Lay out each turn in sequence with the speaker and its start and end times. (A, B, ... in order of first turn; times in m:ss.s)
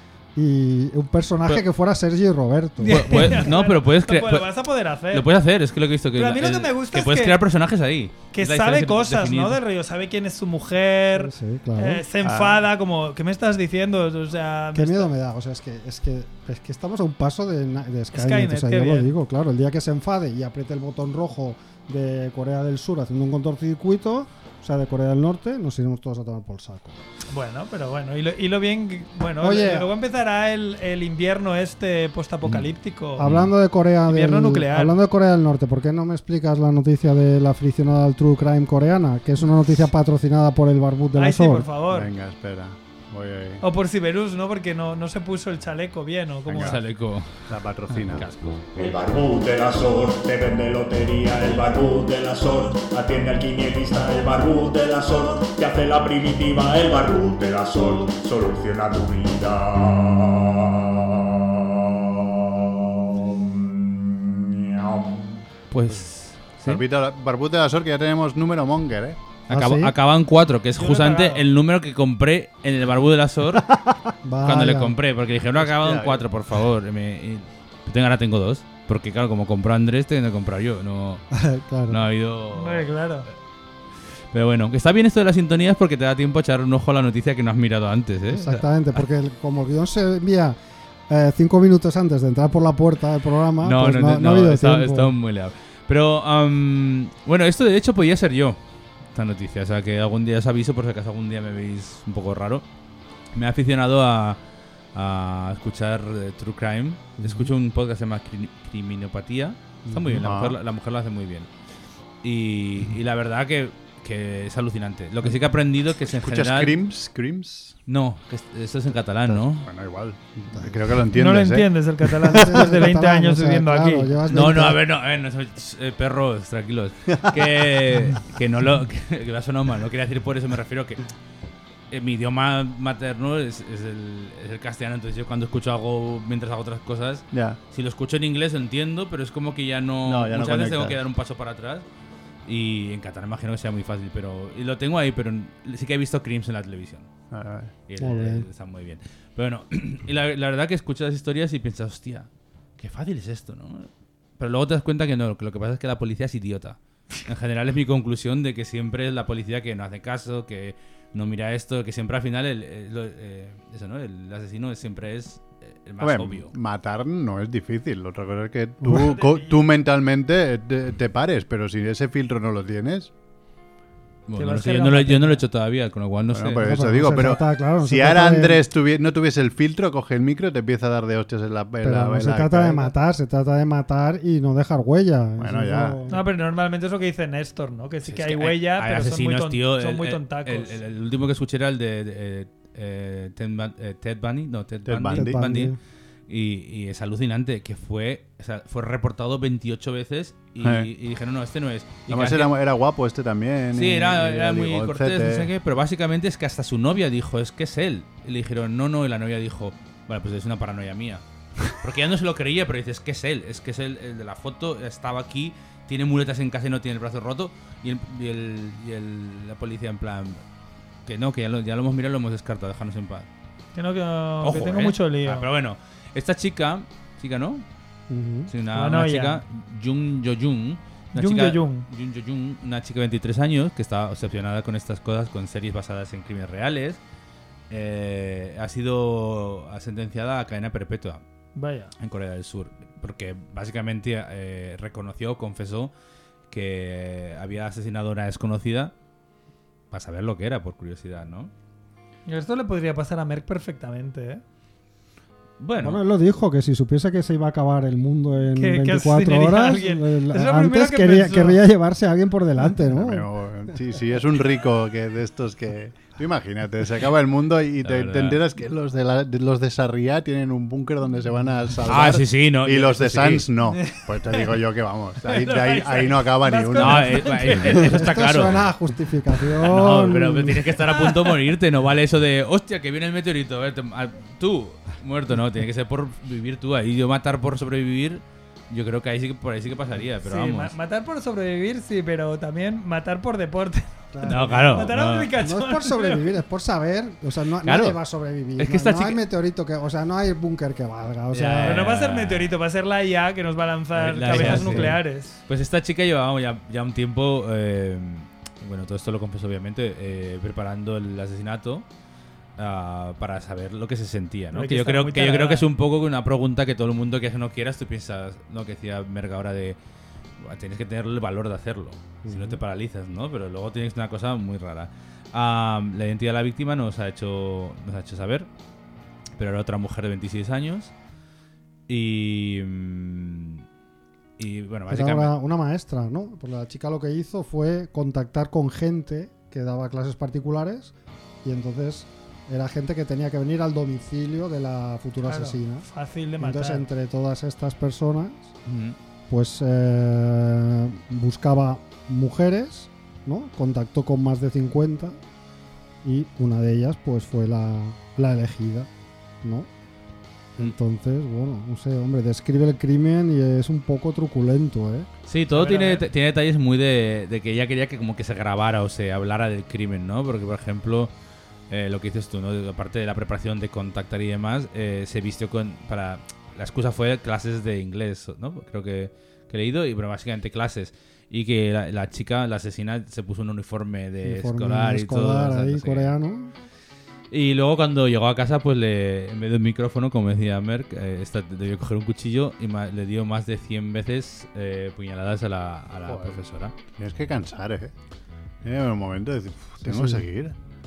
0:00.3-0:03.5 A
0:02.8-0:05.3 B
0:02.8-0:04.6 C
0:05.1-0:09.6 C
0:06.2-0:07.4 B
0:08.3-0:15.1 B
0:11.1-0:12.0 A
0:12.2-0:12.6 D
0:14.7-0:27.0 A
0:18.1-0:19.1 B
0:27.3-0:33.2 B
0:29.4-0:29.9 A
0:33.2-0:41.7 A
0:33.2-0:33.5 C
0:34.1-0:34.9 B
0:41.2-0:42.1 B
0:41.9-0:43.6 D
0:43.6-0:46.8 B
0:46.5-0:46.8 D
0:46.6-0:48.7 C
0:47.5-0:48.2 D
0:48.8-1:05.3 E
1:05.7-1:06.8 C
1:06.6-1:09.2 D
1:09.5-1:13.7 C
1:09.5-1:09.9 A
1:10.7-1:11.5 B
1:14.2-1:15.0 A
1:14.4-1:21.2 C
1:15.6-1:16.2 D
1:21.3-1:22.0 A
1:21.9-1:22.9 C
1:22.5-1:23.3 B
1:24.3-1:29.0 C
1:28.3-1:30.6 A
1:31.1-1:35.1 A
1:33.6-1:38.6 C
1:39.1-1:42.6 C
1:43.3-1:44.4 C
1:44.9-1:51.5 C
1:47.2-1:47.5 A
1:49.9-1:50.2 A
1:50.2-1:50.6 D
1:52.2-1:56.8 C
1:56.0-1:57.8 D
1:57.9-1:59.7 C
1:59.3-2:02.5 D
2:01.1-2:04.1 B
2:02.3-2:04.8 A
2:04.3-2:11.0 C
2:11.9-2:21.8 C
2:17.3-2:17.6 D
2:20.0-2:21.0 D
2:22.4-2:27.1 C
2:27.3-2:27.7 D
2:27.9-2:46.5 C
2:28.0-2:28.4 A
2:46.0-2:53.1 D
2:48.8-2:49.1 A
2:49.0-2:49.6 B
2:54.3-2:56.7 C
2:54.4-2:55.4 B
2:56.3-3:02.9 D
2:56.6-2:58.6 A
3:01.8-3:06.2 A
3:05.4-3:06.0 D
3:06.1-3:10.8 B
3:08.0-3:15.8 C
3:14.8-3:15.4 D
3:15.1-3:15.8 A
3:16.3-3:22.5 C
3:20.6-3:20.9 D
3:22.1-3:25.5 D
3:23.7-3:40.4 C
3:41.0-3:43.3 C
3:43.7-3:45.5 B
3:44.4-3:47.6 C
3:48.1-3:48.5 A
3:48.5-3:57.0 C
3:48.7-3:49.4 B
3:51.1-3:51.9 B
3:57.7-4:01.2 C
4:01.6-4:01.9 B
4:02.0-4:05.9 C
4:06.5-4:08.9 C
4:09.9-4:11.5 C
4:12.3-4:14.4 B
4:15.6-4:16.0 C
4:15.8-4:23.3 A
4:18.6-4:21.6 B
4:22.8-4:37.5 D
4:27.8-4:28.4 C
4:31.8-4:33.5 C
4:33.7-4:34.4 B
4:35.2-4:37.8 B
4:36.8-4:38.7 C
4:37.6-4:40.8 A
4:39.6-4:50.7 C
4:40.9-4:41.4 B
4:50.2-4:56.3 B
4:54.1-5:01.9 A
4:54.2-4:55.3 C
4:57.6-4:58.0 C
4:58.6-4:59.2 C
5:01.3-5:02.5 C
5:01.6-5:05.4 B
5:03.9-5:11.8 C
5:04.3-5:05.0 A
5:12.6-5:19.8 C
5:14.5-5:15.7 B
5:20.4-5:28.5 C
5:22.2-5:22.6 A
5:29.4-5:30.9 C
5:31.9-5:33.6 C
5:34.4-5:35.3 C
5:34.9-5:45.8 A
5:45.2-5:46.8 B
5:46.4-5:48.5 A
5:48.7-5:49.0 C
5:49.3-5:55.2 A
5:56.0-5:58.9 A
5:59.4-5:59.7 A
6:00.6-6:05.1 A
6:05.3-6:11.1 C
6:05.5-6:06.0 B
6:11.7-6:26.1 C
6:24.2-6:26.5 A
6:27.3-6:36.7 C
6:36.0-6:36.4 D
6:37.0-6:37.9 D
6:38.6-6:40.6 D
6:39.8-6:40.2 A